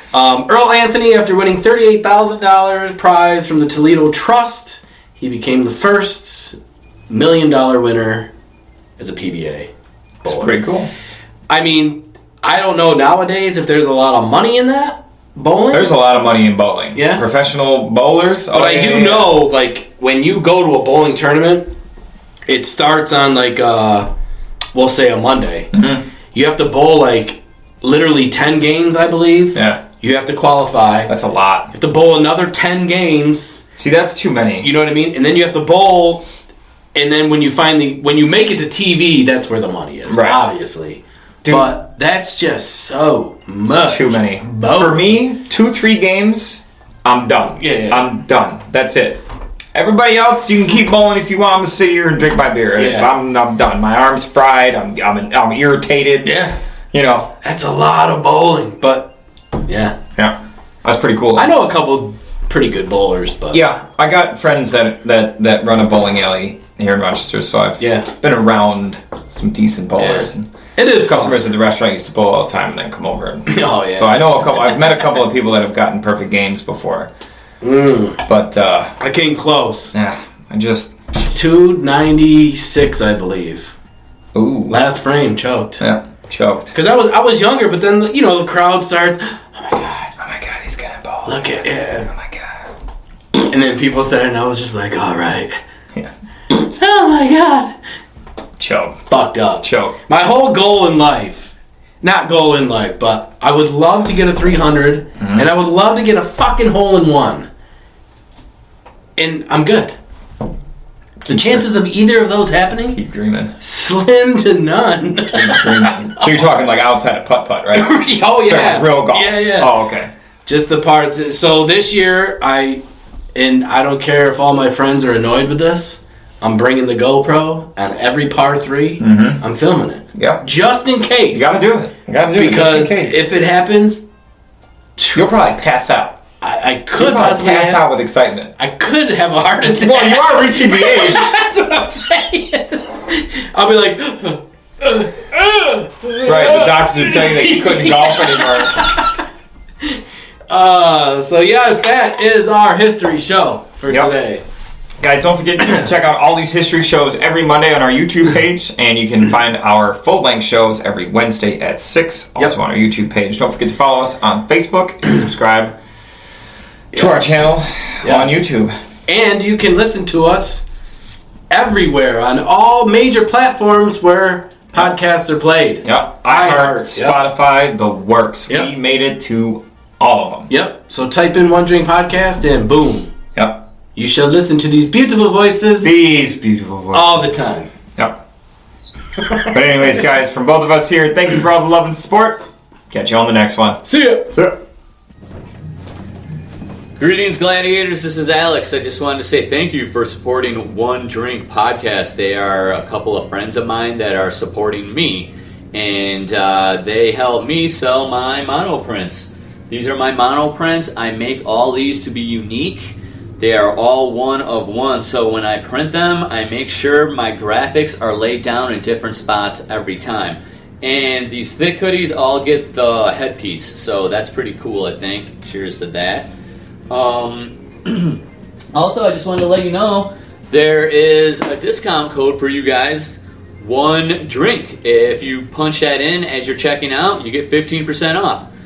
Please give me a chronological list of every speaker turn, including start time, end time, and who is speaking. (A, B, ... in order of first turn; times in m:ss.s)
0:00.1-0:06.6 A
0:07.1-0:08.3 A
0:09.0-0:09.7 A
0:10.2-0:10.6 A
0:10.2-0:10.9 B
0:11.5-0:16.0 A
0:15.7-0:19.4 B
0:16.9-0:17.2 A
0:18.5-0:21.7 A
0:22.5-0:24.1 A
0:24.7-0:25.7 A
0:25.7-0:26.0 B
0:26.3-0:31.1 A
0:29.5-0:29.8 B
0:31.1-0:31.7 B
0:31.7-0:33.6 A
0:33.8-0:34.7 B
0:34.6-0:36.2 A
0:36.9-0:45.0 A
0:40.1-0:40.4 B
0:41.4-0:41.7 B
0:43.7-0:49.2 B
0:47.6-0:48.1 A
0:49.7-0:57.3 B
0:52.8-0:53.1 A
0:56.2-0:56.6 A
0:57.4-1:00.0 A
1:00.2-1:01.5 B
1:01.4-1:03.6 A
1:03.5-1:17.1 B
1:07.8-1:08.1 A
1:10.0-1:11.4 A
1:13.5-1:14.8 A
1:17.6-1:18.2 A
1:18.2-1:18.9 B
1:19.0-1:19.9 A
1:19.9-1:20.9 B
1:21.1-1:23.7 A
1:24.3-1:24.8 B
1:24.7-1:25.8 A
1:25.8-1:26.7 B
1:26.7-1:30.1 A
1:30.2-1:32.6 B
1:31.2-1:32.1 A
1:33.3-1:35.6 A
1:36.5-1:37.8 A
1:38.6-1:39.0 B
1:39.1-1:47.5 A
1:39.6-1:39.9 B
1:45.2-1:45.5 B
1:49.2-1:49.9 A
1:51.2-1:51.7 B
1:51.3-1:53.0 A
1:52.9-1:53.5 B
1:53.6-1:56.4 A
1:55.3-2:00.1 B
1:57.7-1:59.7 A
2:00.4-2:02.8 A
2:03.3-2:11.6 A
2:09.0-2:09.4 B
2:10.1-2:10.4 B
2:11.3-2:13.2 B
2:12.3-2:14.0 A
2:15.0-2:15.3 A
2:15.1-2:16.2 B
2:16.4-2:17.8 A
2:17.0-2:18.5 B
2:18.6-2:29.1 A
2:19.6-2:21.3 B
2:26.2-2:28.8 B
2:30.5-2:34.4 A
2:35.0-2:45.7 B
2:46.9-2:48.7 B
2:46.9-2:47.2 A
2:48.0-2:48.5 A
2:49.1-2:50.6 A
2:51.5-2:57.2 A
2:55.8-3:00.5 B
3:00.5-3:03.1 A
3:03.3-3:03.6 B
3:03.9-3:05.9 A
3:05.8-3:07.2 B
3:06.9-3:07.7 A
3:09.4-3:13.8 B
3:13.8-3:14.4 A
3:17.0-3:46.3 C
3:46.9-3:48.2 C
3:48.7-3:58.5 C